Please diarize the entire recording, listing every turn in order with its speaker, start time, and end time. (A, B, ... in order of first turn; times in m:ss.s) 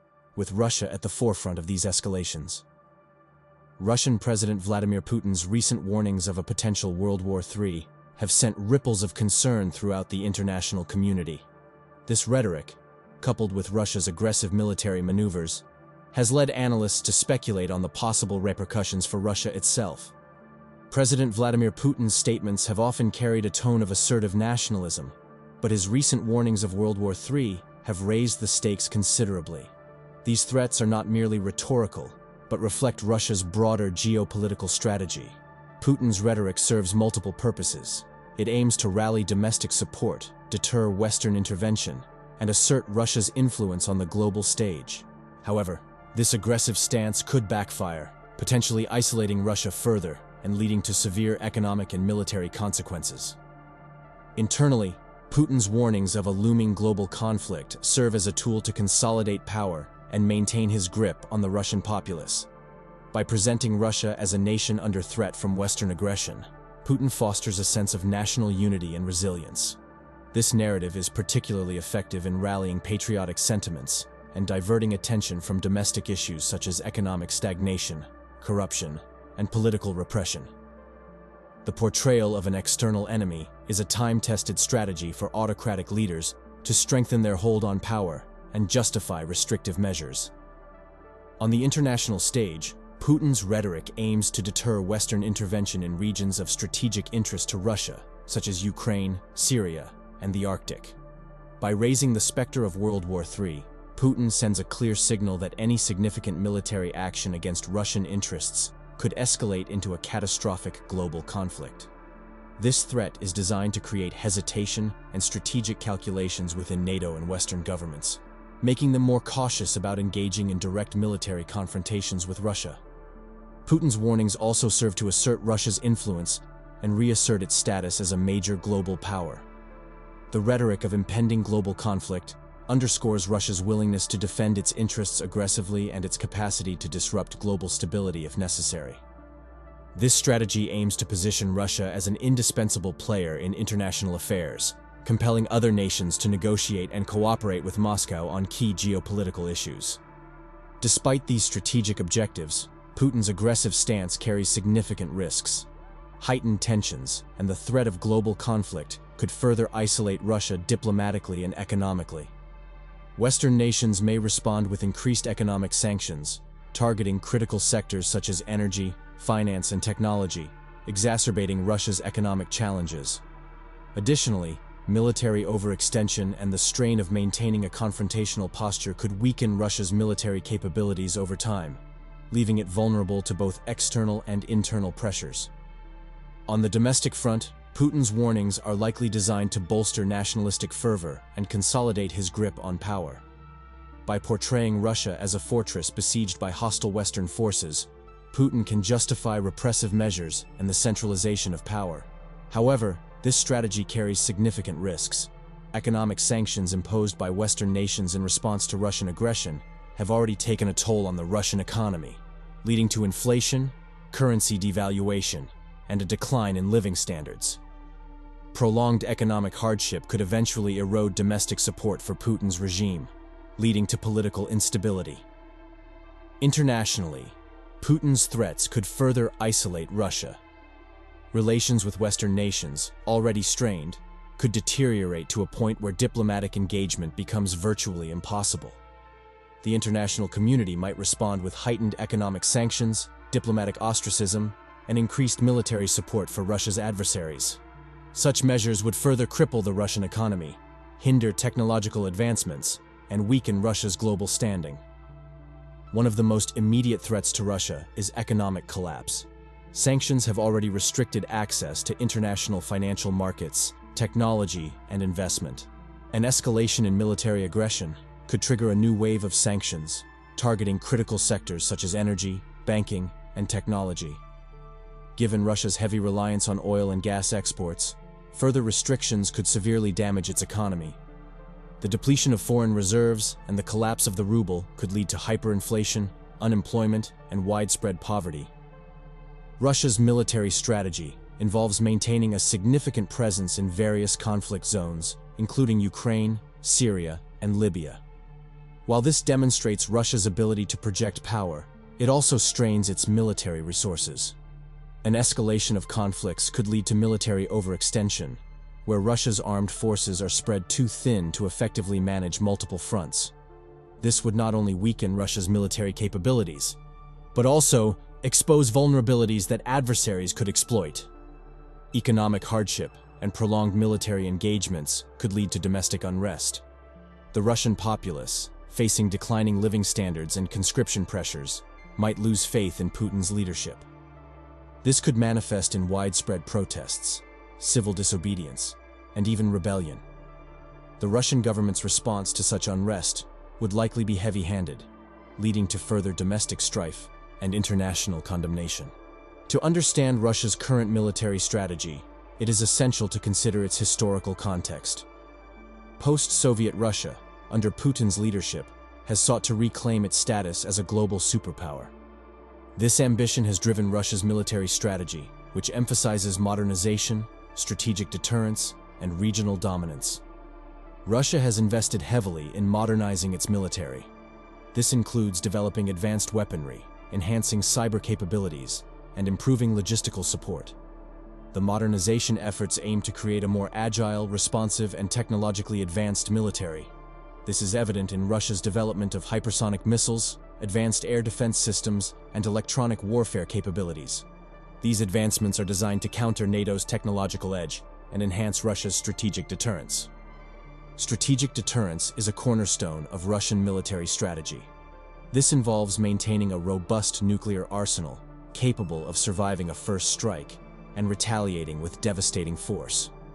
0:00.4-0:02.6 A
0:03.8-0:11.5 A
0:12.1-0:20.1 A
0:20.9-0:29.7 A
0:30.2-0:53.4 A
0:54.4-1:02.5 A
1:03.1-1:09.8 A
1:10.3-1:20.5 A
1:21.6-1:30.3 A
1:31.4-1:41.0 A
1:41.6-1:51.9 A
1:52.6-2:02.8 A
2:03.7-2:09.5 A
2:10.3-2:19.0 A
2:20.0-2:30.0 A
2:30.8-2:35.7 A
2:36.2-2:42.3 A
2:43.2-2:53.2 A
2:54.0-3:05.5 A
3:06.5-3:13.2 A
3:14.1-3:37.6 A
3:38.5-3:45.3 A
3:46.4-3:50.4 A
3:51.3-3:58.8 A
3:59.6-4:07.6 A
4:08.1-4:14.8 A
4:15.9-4:34.2 A
4:35.2-4:41.0 A
4:41.8-4:48.5 A
4:49.6-4:58.0 A
4:58.9-5:04.4 A
5:05.0-5:13.3 A
5:14.0-5:16.8 A
5:17.3-5:21.1 A
5:21.9-5:26.6 A
5:27.3-5:33.9 A
5:34.8-5:40.0 A
5:41.0-5:48.9 A
5:49.5-5:55.1 A
5:56.0-6:01.9 A
6:02.8-6:10.2 A
6:11.0-6:14.1 A
6:14.7-6:20.8 A
6:21.5-6:26.9 A
6:27.4-6:34.3 A
6:34.8-6:40.1 A
6:41.0-6:44.7 A
6:45.3-6:53.1 A